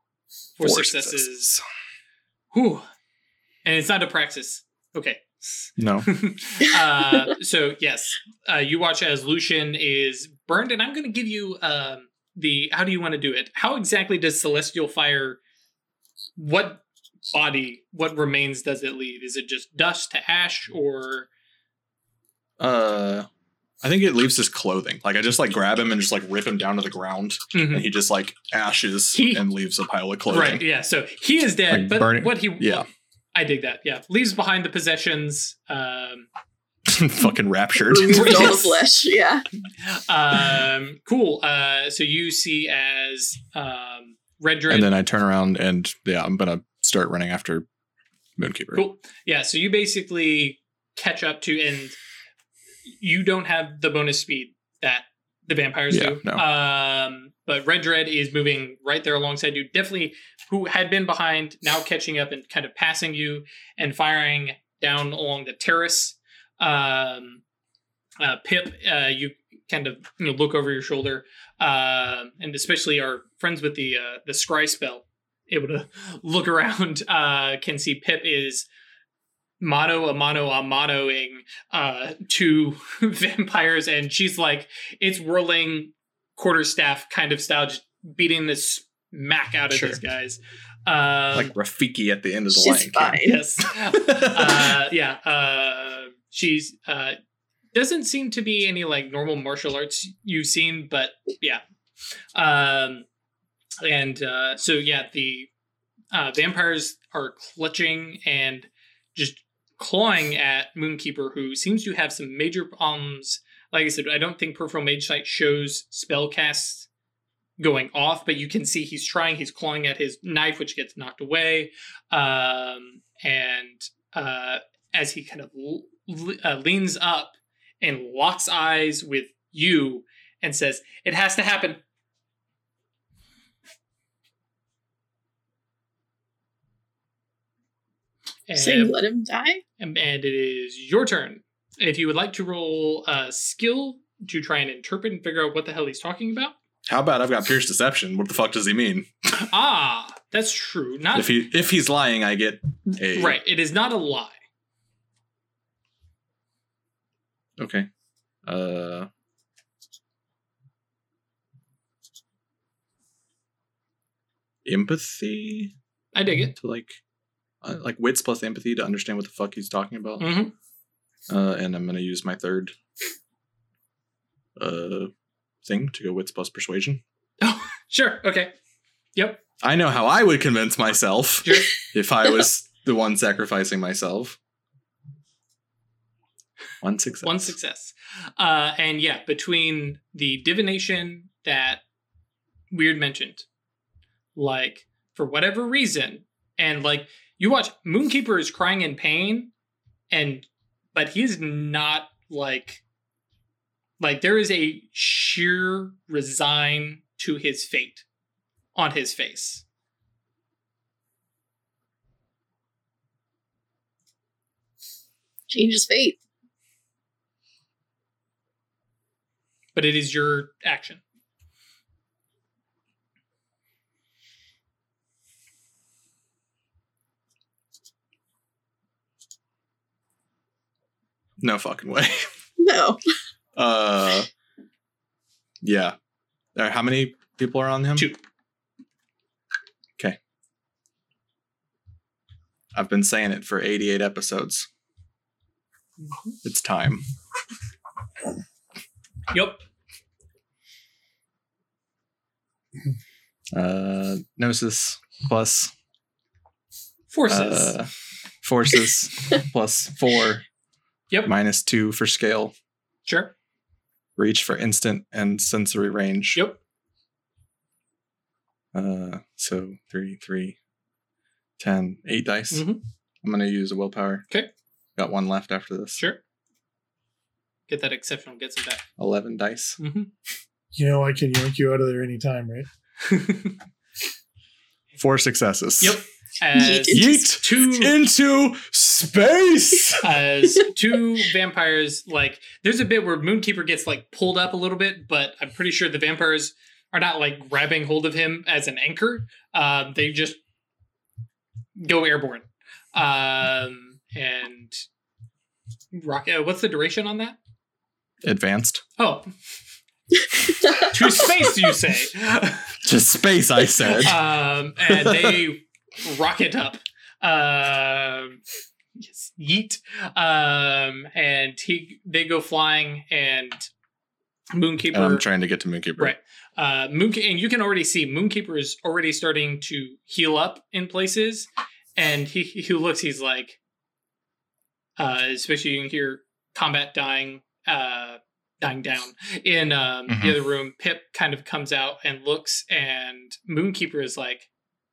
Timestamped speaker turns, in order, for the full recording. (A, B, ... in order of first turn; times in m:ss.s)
0:00.6-0:01.6 A
0:00.6-0:01.6 B
0:02.5-0:02.9 A
0:03.6-0:15.4 A
0:05.8-0:06.1 B
0:16.4-0:21.3 A
0:22.6-0:23.3 B
0:23.8-0:30.6 B
0:27.5-0:27.9 A
0:29.1-0:29.4 A
0:30.3-0:36.3 A
0:31.7-0:32.9 B
0:36.8-0:38.6 B
0:37.9-0:39.4 C
0:38.1-0:38.7 A
0:39.8-0:44.9 A
0:44.7-0:47.6 B
0:48.4-0:48.8 B
0:48.7-0:52.0 A
0:53.0-1:07.4 A
0:55.9-0:56.4 B
1:08.2-1:18.7 A
1:19.6-1:31.5 A
1:29.7-1:30.0 B
1:31.3-1:33.2 B
1:32.5-1:33.4 C
1:33.2-1:37.2 A
1:33.9-1:34.7 B
1:37.7-1:41.6 A
1:42.3-1:43.0 A
1:43.8-1:45.5 A
1:46.1-1:56.9 A
1:57.6-2:11.8 A
2:18.5-2:18.9 A
2:18.6-2:19.6 C
2:19.8-2:26.5 A
2:26.8-2:29.1 B
2:29.3-2:31.4 A
2:31.1-2:33.4 B
2:33.1-2:34.4 A
2:37.6-2:37.9 B
2:38.4-2:39.1 B
2:44.6-2:45.7 B
2:46.1-2:46.6 A
2:46.6-2:47.0 B
2:47.6-2:50.3 B
2:50.2-2:50.5 A
2:51.3-2:52.7 B
2:54.6-2:55.1 B
2:55.6-2:57.0 B
2:57.4-2:58.5 A
2:59.2-2:59.4 A
2:59.6-3:04.4 B
3:01.4-3:01.7 A
3:06.8-3:07.5 B
3:07.2-3:11.8 A
3:12.7-3:13.4 A
3:14.4-3:19.5 A
3:20.1-3:22.8 A
3:24.0-3:28.0 A
3:28.7-3:29.6 A
3:35.5-3:36.2 C
3:39.7-3:41.0 A
3:51.4-3:52.3 B
3:52.6-3:53.0 C
3:53.5-3:54.3 B
3:55.6-3:56.0 B
3:56.5-3:58.1 B
3:58.0-3:58.2 A
4:02.7-4:04.7 B
4:06.0-4:06.4 A
4:06.4-4:07.0 B
4:09.3-4:09.6 A
4:13.5-4:15.7 B
4:17.1-4:17.7 A
4:17.3-4:17.9 B
4:18.4-4:20.4 B
4:21.2-4:22.5 B
4:23.0-4:23.3 A
4:24.2-4:26.4 B
4:28.7-4:30.6 B
4:31.6-4:32.6 B
4:32.5-4:32.8 A
4:33.2-4:34.2 B
4:35.0-4:36.0 B
4:37.7-4:38.9 A
4:39.0-4:39.8 B
4:39.8-4:40.1 A
4:40.7-4:42.7 D
4:43.0-4:43.6 A
4:45.0-4:46.0 B
4:45.8-4:47.9 A
4:46.5-4:47.3 C
4:46.9-4:50.0 B
4:50.0-5:00.4 A
5:01.8-5:04.8 A
5:05.9-5:07.4 A
5:08.2-5:08.8 B
5:09.0-5:09.3 A
5:10.8-5:12.8 A
5:12.8-5:14.2 B
5:13.9-5:18.4 A
5:14.9-5:15.4 B
5:19.0-5:23.7 A
5:24.5-5:25.2 A
5:24.9-5:26.1 B
5:26.0-5:33.6 A
5:35.0-5:44.5 A
5:40.1-5:40.4 B